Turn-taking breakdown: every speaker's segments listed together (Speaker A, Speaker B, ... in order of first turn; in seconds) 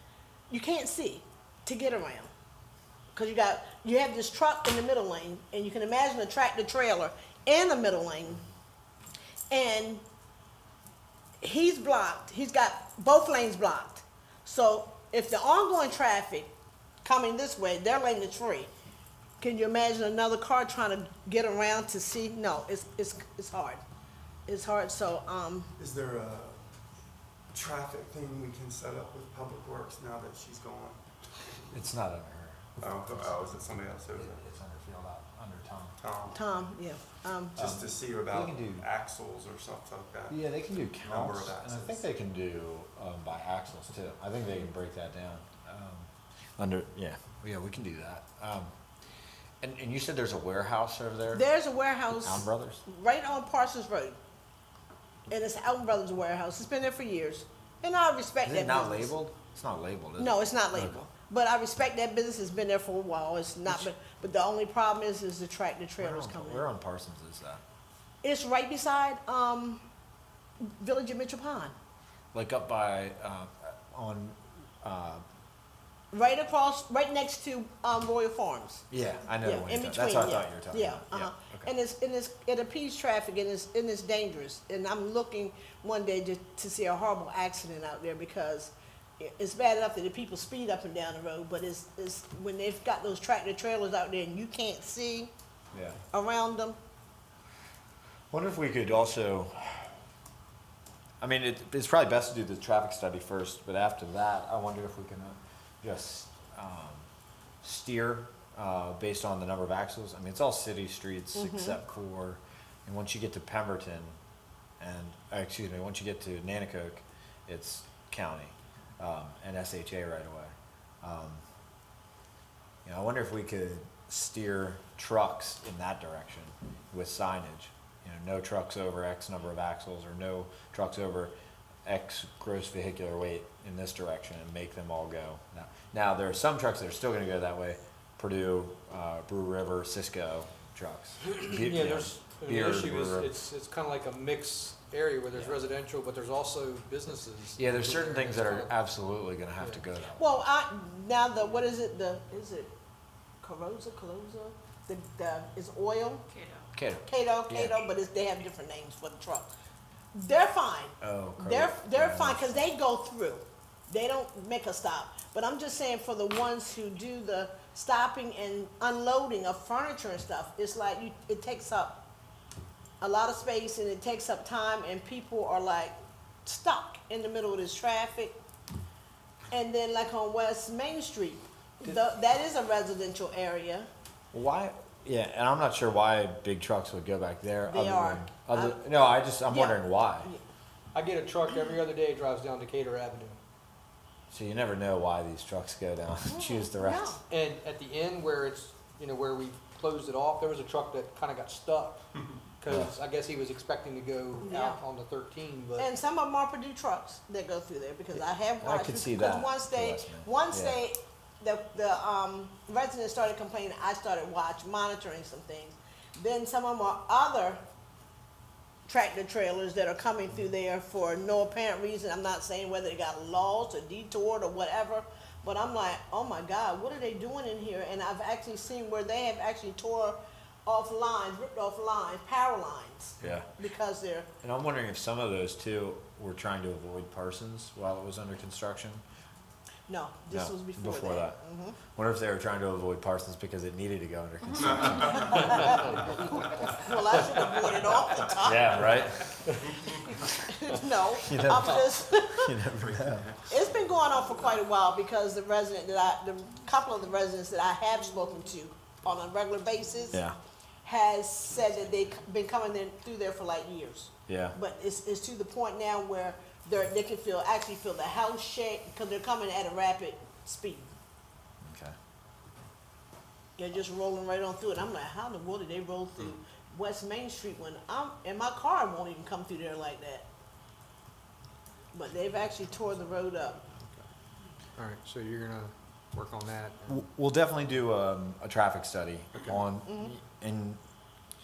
Speaker A: 0.5-2.3, 3.1-8.4, 9.5-10.0, 11.4-16.5, 17.0-18.7, 19.4-23.8, 24.5-25.7, 36.3-37.6, 51.3-54.2, 55.3-59.1, 60.2-66.7, 68.2-69.8, 70.8-71.7, 76.1-78.8, 79.4-95.3, 96.1-96.8, 111.3-111.8, 150.2-152.7, 153.4-156.3, 157.1-159.5, 160.1-172.0, 173.0-178.4, 179.5-183.9, 187.7-188.8, 189.5-190.4, 196.3-197.2, 204.4-204.8, 205.8-217.6, 218.9-234.3, 239.9-241.8, 245.1-245.8, 246.3-248.9, 249.9-252.5, 253.5-260.2, 260.8-270.9, 273.6-280.3, 281.9-283.6, 289.9-290.1
Speaker B: 25.8-26.6, 27.5-31.0, 32.8-34.4, 36.0-36.4, 37.5-40.4, 41.0-42.0, 244.6-245.6
Speaker C: 31.7-33.5, 34.1-36.0, 37.6-38.8, 40.3-48.7, 49.6-51.4, 52.1-52.8, 58.4-61.0, 66.0-67.6, 72.3-75.2, 78.9-81.7, 95.7-96.0, 98.3-99.9, 101.2-107.0, 107.6-114.2, 114.8-121.4, 122.8-131.3, 131.8-143.3, 147.6-150.4, 156.7-157.8, 161.0-162.7, 184.3-190.3, 194.3-197.2, 202.7-202.9, 208.6-210.8, 233.2-233.5, 234.4-239.0, 240.3-245.8, 248.3-249.3, 251.2-253.4, 260.1-260.4, 264.3-264.6, 271.6-271.9, 286.9-290.8
Speaker D: 141.2-148.7, 190.9-193.4, 197.3-205.9, 245.6-246.7, 284.8-287.0